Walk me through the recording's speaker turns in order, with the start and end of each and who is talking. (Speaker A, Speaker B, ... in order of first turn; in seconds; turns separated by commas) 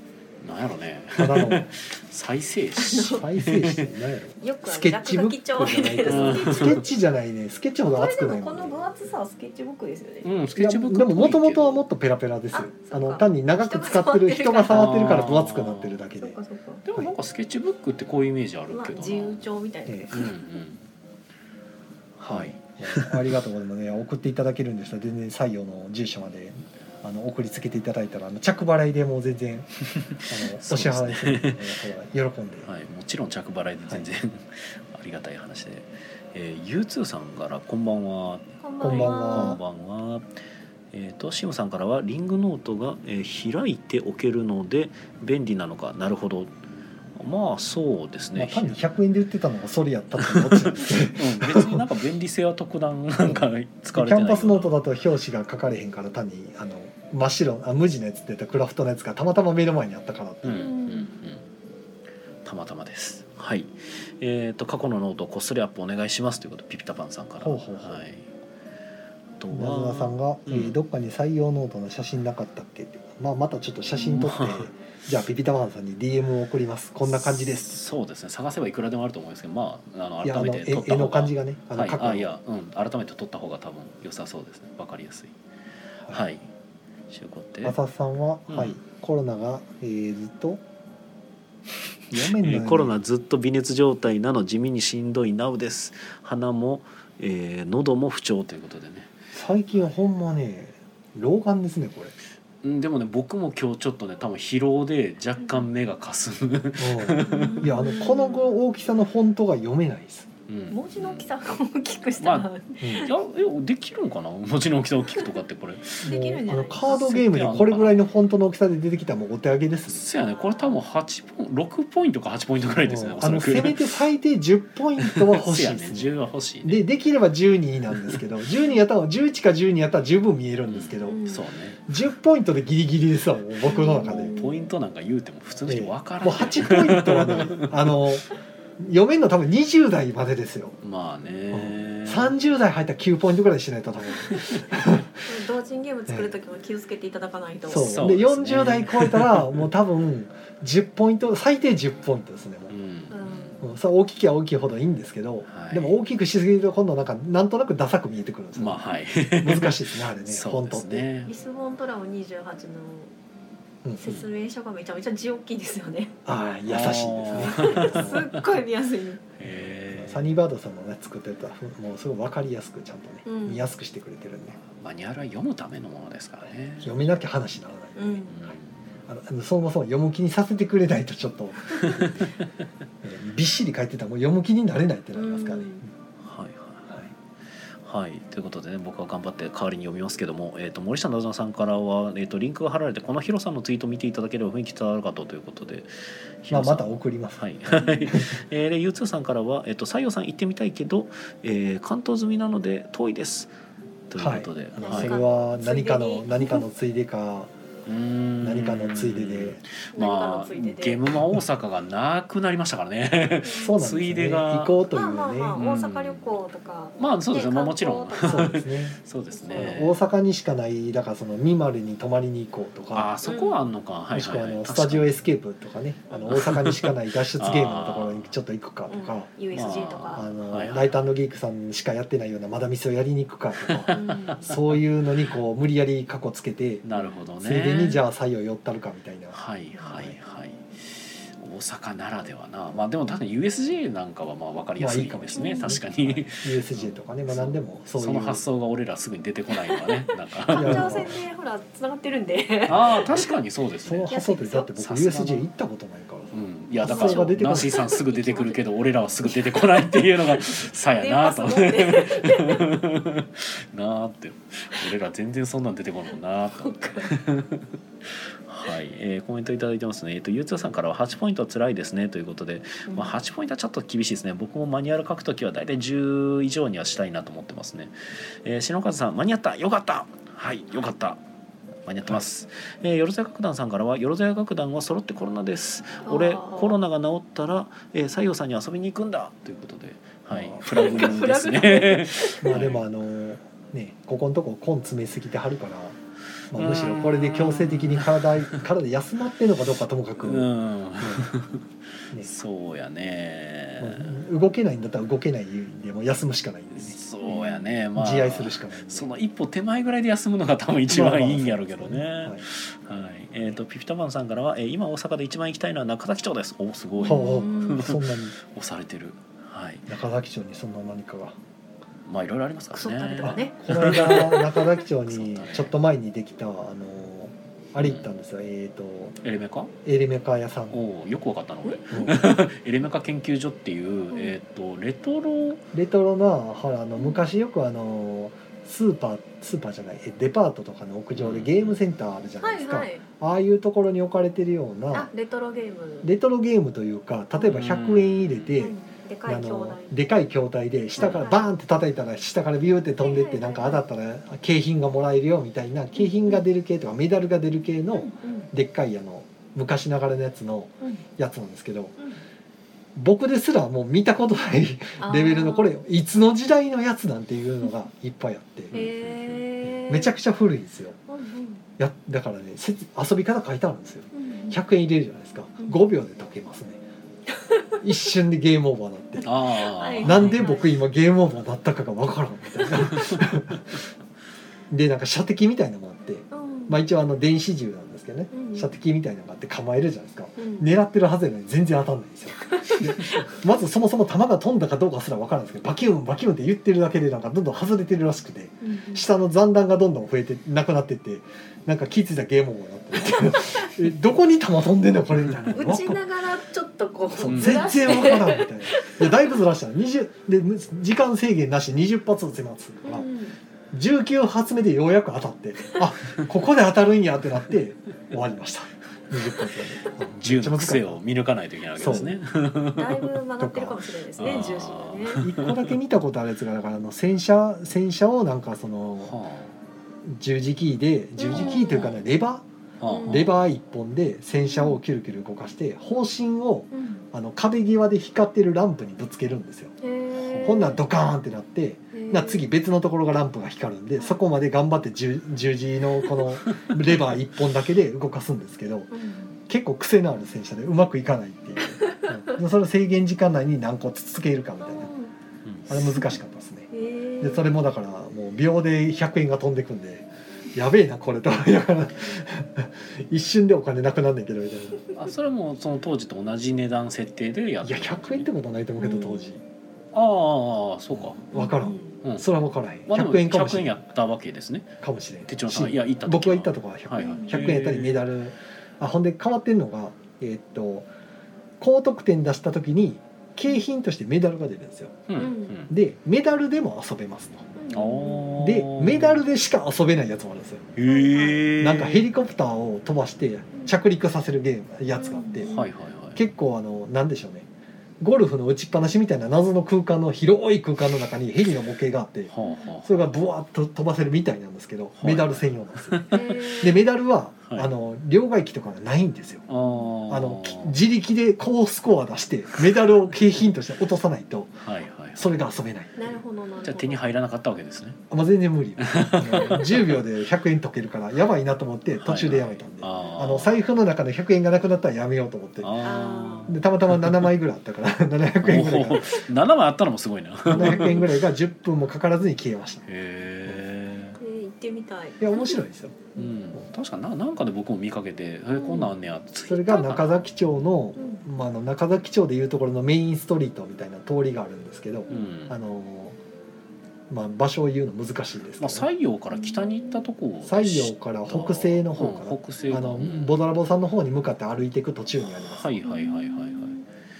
Speaker A: 0.4-3.9, Speaker B: 1.1-1.7, Speaker C: 2.8-3.2, Speaker B: 3.0-8.8, Speaker C: 4.4-6.9, Speaker A: 6.0-6.8, Speaker C: 7.9-10.3, Speaker A: 10.2-11.8, Speaker B: 10.6-16.4, Speaker C: 12.5-15.2, Speaker A: 14.7-16.0, Speaker C: 16.2-16.8, Speaker A: 16.8-19.4, Speaker C: 18.7-20.3, Speaker B: 19.9-20.1, Speaker A: 20.1-20.8, Speaker A: 22.2-23.3, Speaker B: 22.3-29.7, Speaker A: 30.1-31.7, Speaker B: 30.2-32.7, Speaker A: 32.6-40.3, Speaker C: 38.6-39.6, Speaker B: 38.8-39.6, Speaker A: 40.9-46.5, Speaker A: 47.1-48.8, Speaker B: 48.4-51.9, Speaker A: 50.2-54.7, Speaker B: 53.2-60.7, Speaker A: 60.4-61.5, Speaker C: 60.5-61.1, Speaker A: 62.4-68.3, Speaker B: 67.4-68.0, Speaker A: 69.4-70.8, Speaker B: 69.5-77.8, Speaker A: 74.0-74.7, Speaker A: 77.0-85.3, Speaker B: 80.2-82.4, Speaker A: 86.1-86.4, Speaker A: 87.1-87.8, Speaker B: 87.6-90.6, Speaker A: 88.5-88.8, Speaker B: 92.1-92.9, Speaker A: 92.1-99.2, Speaker B: 99.3-102.1, Speaker A: 102.6-107.7, Speaker B: 106.8-110.3, Speaker C: 107.2-108.5, Speaker A: 110.5-111.3, Speaker C: 110.7-113.1, Speaker A: 112.2-116.1, Speaker B: 112.8-113.1, Speaker C: 116.0-117.1, Speaker B: 116.0-120.0, Speaker A: 116.8-118.1, Speaker A: 119.9-124.0, Speaker C: 120.2-120.8, Speaker B: 122.8-131.3, Speaker A: 125.0-126.8, Speaker A: 130.7-131.8, Speaker C: 131.0-131.4, Speaker B: 131.9-134.3, Speaker C: 133.6-134.7, Speaker A: 134.0-138.0, Speaker B: 135.7-138.2, Speaker C: 136.2-136.7, Speaker B: 138.8-140.8, Speaker A: 140.8-142.3, Speaker B: 141.5-145.2, Speaker A: 144.3-144.6, Speaker C: 145.2-148.0, Speaker B: 147.7-152.7, Speaker A: 147.7-149.7, Speaker A: 152.7-153.6, Speaker C: 153.1-153.6, Speaker B: 153.6-158.8, Speaker A: 155.5-155.9, Speaker A: 158.5-161.3, Speaker B: 159.4-161.1, Speaker C: 161.2-163.1, Speaker B: 163.8-164.1, Speaker C: 164.0-166.1, Speaker B: 166.2-168.4, Speaker A: 166.7-168.4, Speaker C: 167.4-169.2, Speaker A: 169.4-170.3, Speaker B: 169.5-174.6, Speaker C: 173.2-173.7, Speaker A: 174.6-177.0, Speaker B: 176.8-178.3, Speaker C: 177.9-178.4, Speaker A: 178.3-178.8, Speaker B: 179.1-182.3, Speaker A: 181.8-182.3, Speaker B: 183.0-185.8, Speaker C: 185.1-185.8, Speaker A: 186.2-187.0, Speaker A: 187.8-195.9, Speaker A: 196.4-203.5, Speaker B: 196.5-198.4, Speaker C: 197.7-198.1, Speaker A: 204.1-205.2, Speaker B: 204.2-207.5, Speaker C: 204.8-206.7, Speaker A: 207.8-214.8, Speaker B: 208.4-209.6, Speaker C: 209.9-211.0, Speaker C: 213.4-213.8, Speaker B: 213.5-215.6, Speaker C: 214.9-218.6, Speaker A: 215.5-216.3, Speaker A: 217.0-219.9, Speaker B: 218.2-219.0, Speaker C: 219.3-219.9, Speaker B: 219.5-223.1, Speaker A: 222.9-225.2, Speaker C: 223.2-223.6, Speaker B: 224.1-229.3, Speaker A: 226.3-228.3, Speaker C: 228.9-230.3, Speaker A: 229.5-231.0, Speaker B: 230.1-236.8, Speaker A: 233.7-234.6, Speaker C: 233.9-234.5, Speaker A: 236.8-238.0, Speaker B: 237.4-239.4, Speaker A: 239.3-251.1, Speaker B: 244.8-248.4, Speaker C: 245.3-245.8, Speaker C: 249.6-253.2, Speaker B: 250.5-251.1, Speaker A: 252.7-254.2, Speaker B: 252.7-253.2, Speaker B: 253.8-257.8, Speaker C: 254.1-254.7, Speaker A: 254.8-255.5, Speaker A: 256.3-281.2, Speaker C: 256.8-262.7, Speaker C: 266.5-267.1, Speaker C: 272.9-273.1, Speaker A: 281.8-292.8, Speaker C: 286.0-286.8, Speaker B: 290.3-291.3, Speaker C: 290.6-292.6, Speaker B: 292.4-296.0, Speaker B: 296.5-301.3, Speaker A: 296.5-298.6, Speaker A: 300.2-301.6, Speaker A: 302.2-304.2, Speaker B: 303.8-307.0, Speaker A: 306.7-319.9, Speaker C: 307.2-307.6, Speaker B: 307.9-309.1, Speaker B: 310.9-312.4, Speaker C: 317.0-317.8, Speaker B: 317.0-318.3, Speaker B: 319.9-321.4, Speaker A: 322.1-325.7, Speaker C: 322.7-324.6, Speaker B: 323.2-329.2, Speaker A: 327.8-328.1, Speaker A: 329.2-329.7, Speaker B: 329.8-330.8, Speaker A: 330.7-335.6, Speaker B: 331.9-332.3, Speaker B: 335.7-345.1, Speaker C: 337.0-337.2, Speaker A: 341.1-341.8, Speaker C: 342.4-343.0, Speaker C: 344.9-346.1, Speaker B: 346.0-361.9, Speaker A: 347.4-348.5, Speaker C: 348.6-350.0, Speaker C: 351.0-351.5, Speaker A: 351.0-351.3, Speaker C: 353.0-353.8, Speaker C: 355.9-356.4, Speaker C: 357.9-358.5, Speaker B: 362.9-368.7, Speaker C: 365.0-365.8, Speaker A: 368.7-369.5, Speaker C: 368.7-370.1, Speaker B: 369.9-371.0, Speaker C: 371.1-371.6, Speaker B: 371.8-376.8, Speaker C: 374.1-374.6, Speaker B: 377.8-379.3, Speaker A: 379.2-380.4, Speaker C: 379.4-380.7, Speaker B: 380.0-383.8, Speaker B: 384.7-406.0, Speaker C: 386.3-386.8, Speaker C: 388.3-388.7, Speaker C: 390.4-390.7, Speaker C: 392.4-393.1, Speaker C: 398.6-399.1, Speaker C: 405.5-409.2, Speaker B: 407.2-413.1, Speaker A: 407.2-407.7, Speaker C: 412.8-413.4, Speaker B: 413.7-421.0, Speaker A: 420.2-423.2, Speaker B: 421.8-422.2, Speaker C: 421.8-422.2, Speaker C: 422.7-425.2, Speaker B: 423.4-423.8, Speaker A: 424.2-425.7, Speaker B: 425.2-429.1, Speaker A: 429.0-429.5, Speaker B: 430.0-432.4, Speaker C: 431.2-431.9, Speaker A: 431.3-432.0, Speaker A: 432.8-433.4, Speaker C: 432.8-433.3, Speaker B: 433.1-439.7, Speaker C: 434.4-434.8, Speaker C: 436.7-437.0, Speaker C: 439.8-440.8, Speaker A: 440.1-440.7, Speaker B: 440.4-448.9, Speaker C: 441.9-442.4, Speaker A: 446.4-446.8, Speaker C: 448.9-449.4, Speaker B: 449.5-454.9, Speaker C: 451.8-452.1, Speaker C: 454.6-455.1, Speaker A: 455.4-455.9, Speaker B: 455.7-464.8, Speaker C: 456.7-457.5, Speaker A: 464.9-468.3, Speaker B: 467.6-469.4, Speaker C: 468.8-469.3, Speaker A: 469.9-471.2, Speaker B: 470.9-473.8, Speaker C: 471.3-471.9, Speaker A: 472.9-478.0, Speaker B: 474.8-480.9, Speaker C: 477.0-477.4, Speaker B: 481.6-485.0, Speaker A: 485.1-485.7, Speaker C: 485.2-485.6, Speaker B: 485.7-487.5, Speaker C: 487.6-488.4, Speaker A: 487.7-489.2, Speaker B: 488.4-490.7, Speaker A: 490.8-492.1, Speaker C: 490.9-491.4, Speaker B: 491.6-495.5, Speaker C: 494.9-495.7, Speaker A: 495.5-496.2, Speaker B: 496.1-497.4, Speaker B: 498.0-502.3, Speaker A: 502.3-503.1, Speaker C: 502.4-502.7, Speaker B: 502.8-509.4, Speaker A: 505.0-506.4, Speaker C: 506.1-506.9, Speaker A: 509.5-510.8, Speaker C: 509.6-509.9, Speaker B: 510.1-514.6, Speaker A: 514.6-515.4, Speaker B: 515.1-516.1, Speaker C: 516.0-517.0, Speaker A: 516.6-518.0, Speaker B: 518.1-525.8, Speaker A: 518.8-520.0, Speaker A: 522.0-523.6, Speaker A: 525.6-527.3, Speaker C: 525.8-526.5, Speaker B: 526.5-529.2, Speaker A: 528.4-531.2, Speaker B: 530.5-532.8, Speaker C: 530.5-531.1, Speaker A: 532.9-534.2, Speaker C: 534.2-535.6, Speaker B: 535.2-536.1, Speaker A: 536.1-540.7, Speaker C: 538.5-538.9, Speaker B: 539.5-546.2, Speaker C: 541.0-541.2, Speaker A: 545.1-545.5, Speaker B: 547.1-548.9, Speaker A: 548.6-553.4, Speaker C: 549.3-550.0, Speaker B: 550.4-555.8, Speaker A: 555.3-556.8, Speaker C: 555.8-556.8